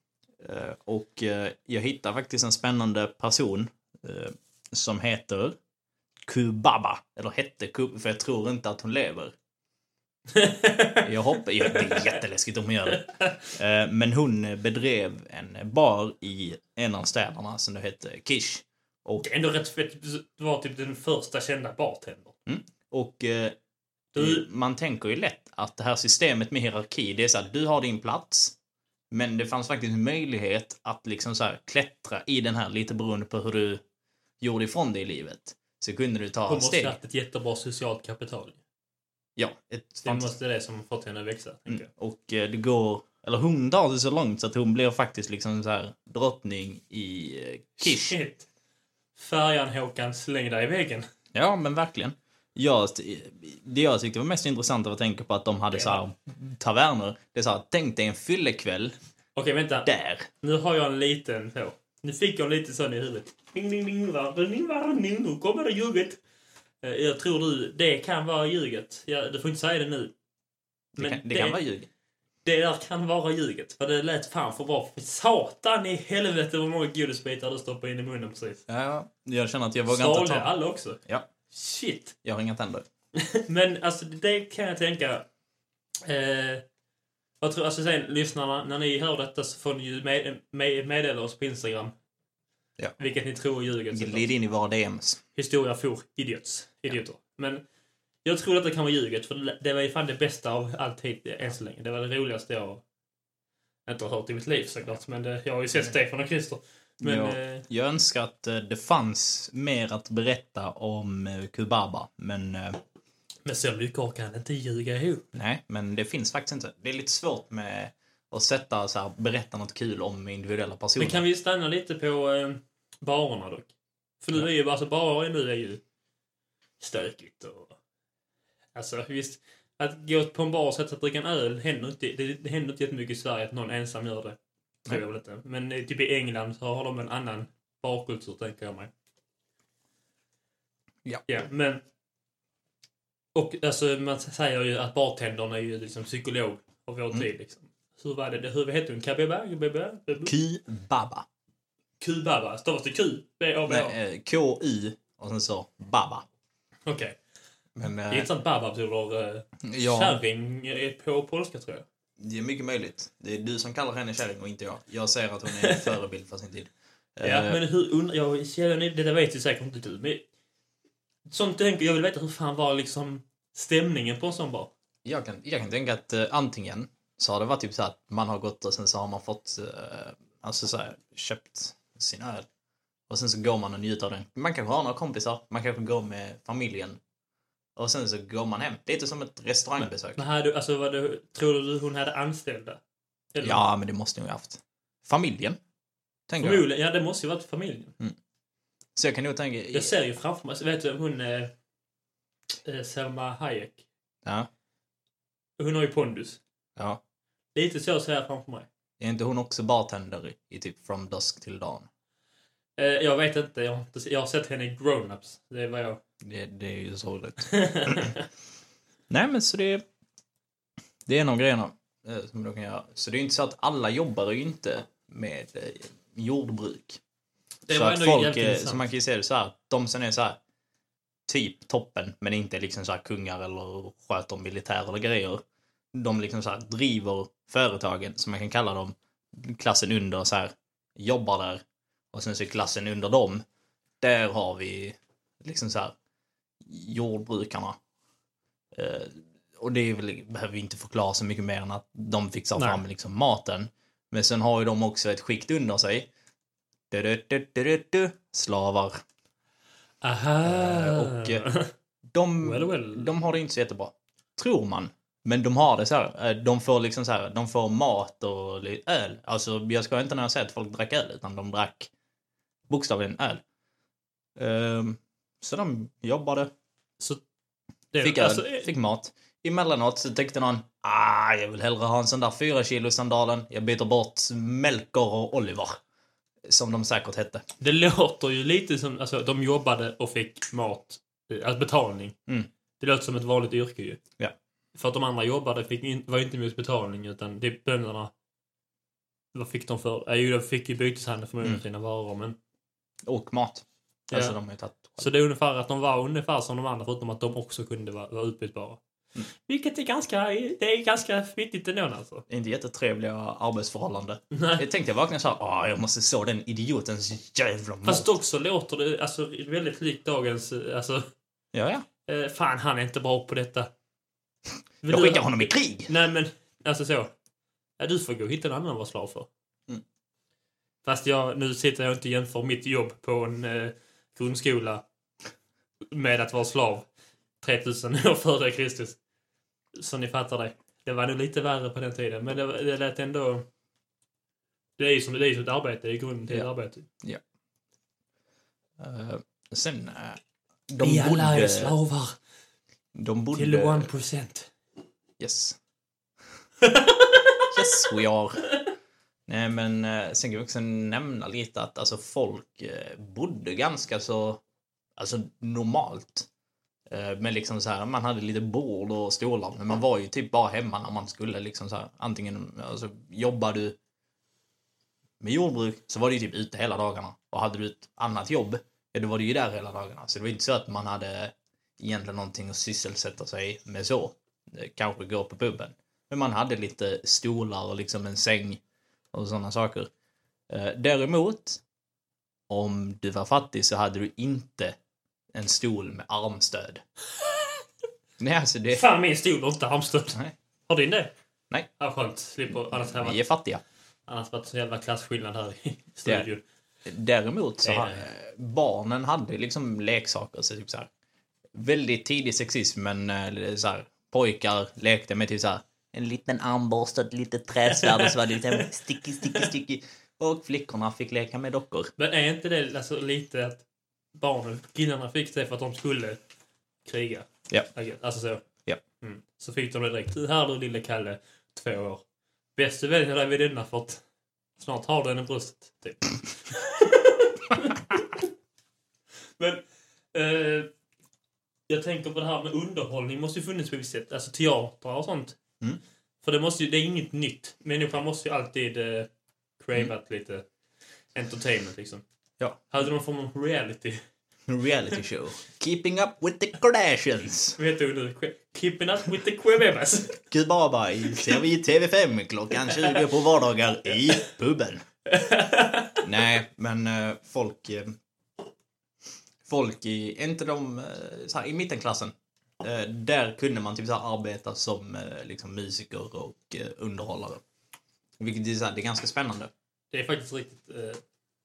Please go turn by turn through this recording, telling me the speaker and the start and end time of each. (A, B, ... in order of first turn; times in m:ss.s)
0:00.4-0:05.6 A
0:06.3-0:09.3 A
0:10.3-0:11.1 B
0:11.0-0:19.3 A
0:11.6-0:12.2 B
0:12.9-0:13.4 B
0:19.2-0:22.4 B
0:22.5-0:23.6 A
0:24.1-0:24.4 B
0:24.2-0:28.6 A
0:29.1-0:33.8 A
0:34.4-0:37.0 A
0:36.5-0:38.6 B
0:39.4-0:40.3 A
0:40.0-0:41.9 B
0:41.7-0:48.2 A
0:47.8-0:48.5 B
0:49.2-0:51.1 B
0:51.3-0:59.0 A
0:55.7-0:56.0 B
0:59.4-0:59.9 B
0:59.8-1:00.3 A
1:00.4-1:06.2 B
1:06.8-1:10.1 B
1:11.0-1:11.9 A
1:11.0-1:11.6 B
1:12.4-1:18.6 B
1:18.7-1:20.5 A
1:19.9-1:22.1 B
1:22.2-1:22.8 A
1:23.2-1:25.3 B
1:26.0-1:26.6 B
1:27.4-1:31.9 B
1:33.0-1:34.3 B
1:33.9-1:35.2 A
1:35.4-1:37.6 B
1:38.2-1:42.8 B
1:43.9-1:47.6 B
1:47.0-1:52.8 A
1:53.4-1:55.3 B
1:55.3-2:01.2 A
2:01.0-2:03.7 B
2:04.2-2:05.8 B
2:06.8-2:07.8 B
2:08.7-2:18.9 B
2:21.3-2:21.8 B
2:23.3-2:30.3 B
2:30.2-2:31.2 A
2:32.0-2:34.0 B
2:33.7-2:36.2 A
2:36.9-2:37.2 B
2:37.8-2:38.3 A
2:38.1-2:41.8 B
2:39.6-2:40.2 A
2:42.2-2:47.6 A
2:45.6-2:45.9 B
2:47.2-2:50.2 B
2:51.3-2:54.7 B
2:55.0-3:02.5 A
3:03.1-3:07.0 A
3:07.8-3:10.2 A
3:10.2-3:12.8 B
3:13.3-3:13.6 B
3:13.4-3:15.6 A
3:16.3-3:16.6 A
3:16.4-3:17.9 B
3:19.0-3:20.0 A
3:19.7-3:21.5 B
3:22.6-3:23.8 B
3:25.6-3:26.4 B
3:27.6-3:28.7 B
3:29.0-3:31.9 A
3:32.8-3:36.0 B
3:36.2-3:38.2 A
3:37.5-3:38.2 B
3:39.1-3:39.8 A
3:41.1-3:47.0 A
3:47.7-3:48.9 B
3:47.7-3:50.4 A
3:51.3-3:55.4 A
3:56.0-4:01.6 A
4:02.1-4:03.4 A
4:04.0-4:05.9 A
4:06.6-4:07.8 A
4:08.8-4:16.1 A
4:12.6-4:12.8 B
4:16.9-4:19.0 A
4:20.0-4:21.7 B
4:20.4-4:21.4 A
4:22.1-4:31.9 A
4:22.4-4:23.1 B
4:32.7-4:33.4 A
4:34.4-4:36.5 A
4:37.9-4:38.7 B
4:38.0-4:45.8 A
4:46.5-4:47.4 A
4:47.6-4:52.1 B
4:52.8-4:54.0 B
4:54.7-4:58.1 B
4:59.3-5:02.4 B
5:03.1-5:05.1 A
5:04.1-5:04.4 B
5:05.0-5:08.8 B
5:09.4-5:12.2 B
5:12.3-5:18.1 A
5:14.3-5:14.6 B
5:17.8-5:21.1 B
5:21.5-5:21.8 A
5:22.1-5:23.7 B
5:24.8-5:27.1 B
5:24.9-5:25.9 A
5:27.8-5:29.3 B
5:30.8-5:34.8 B
5:35.9-5:36.9 B
5:37.4-5:39.0 B
5:39.7-5:43.5 B
5:44.8-5:46.9 B
5:48.8-5:51.8 A
5:50.8-5:52.2 B
5:53.0-5:53.9 A
5:53.3-5:54.5 B
5:55.2-5:55.6 A
5:56.6-5:57.4 B
5:57.5-5:58.5 A
5:59.3-6:04.4 A
6:05.0-6:06.3 A
6:06.9-6:13.8 A
6:15.2-6:28.6 A
6:29.1-6:29.9 A
6:30.5-6:31.6 A
6:32.5-6:34.8 A
6:35.3-6:36.8 A
6:38.2-6:38.8 A
6:38.7-6:41.1 B
6:41.8-6:43.2 B
6:42.7-6:43.6 A
6:44.1-6:46.4 B
6:46.9-6:50.9 A
6:47.6-6:48.0 B
6:51.6-7:01.9 A
6:57.7-6:59.5 B
7:02.0-7:03.6 B
7:04.1-7:06.2 B
7:06.8-7:08.4 B
7:09.0-7:12.0 B
7:12.6-7:14.0 B
7:14.6-7:18.3 B
7:19.4-7:20.7 B
7:21.7-7:25.4 B
7:26.2-7:30.5 B
7:31.1-7:32.0 B
7:32.7-7:34.0 B
7:34.5-7:37.6 A
7:37.6-7:40.2 B
7:40.3-7:44.8 A
7:42.6-7:43.1 B
7:45.1-7:46.1 B
7:46.0-7:48.0 A
7:49.5-7:57.4 A
7:58.2-7:59.5 A
7:59.9-8:01.0 B